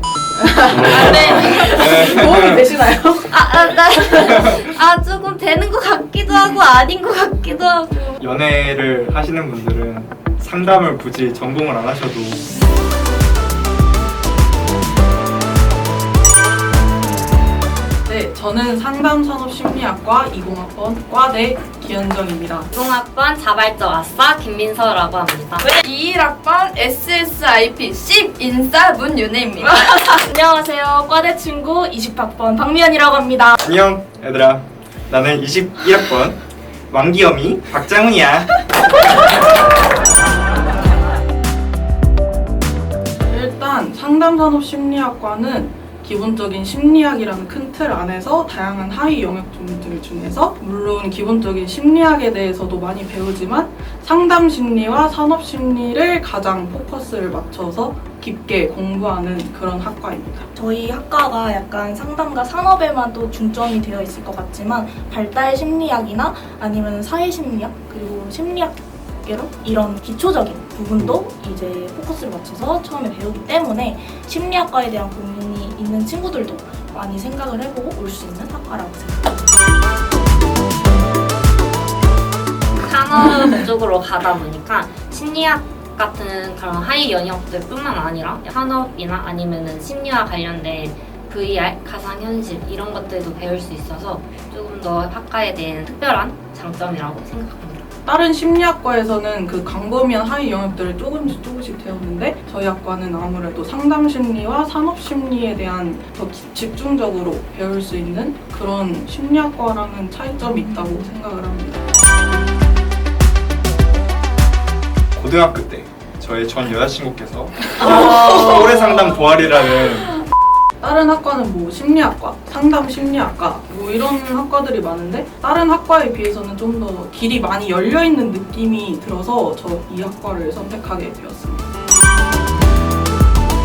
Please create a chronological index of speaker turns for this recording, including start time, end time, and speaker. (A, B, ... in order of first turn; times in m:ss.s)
0:00.4-0:03.3 A
0:00.8-0:02.7 B
0:01.0-0:01.7 C
0:01.8-0:02.0 D
0:03.3-0:08.2 E
0:04.1-0:04.6 B
0:08.2-0:12.4 B
0:18.0-0:22.7 A
0:22.7-0:25.7 E
0:25.7-0:30.2 C
0:29.6-0:33.6 D
0:33.6-0:36.4 B
0:36.9-0:38.6 B
0:43.3-1:00.5 A
1:00.5-1:19.4 D
1:22.7-1:37.8 E
1:38.0-1:51.8 A
1:50.4-1:51.0 D
1:55.1-2:00.1 B
1:57.8-1:59.3 C
2:00.8-2:11.6 A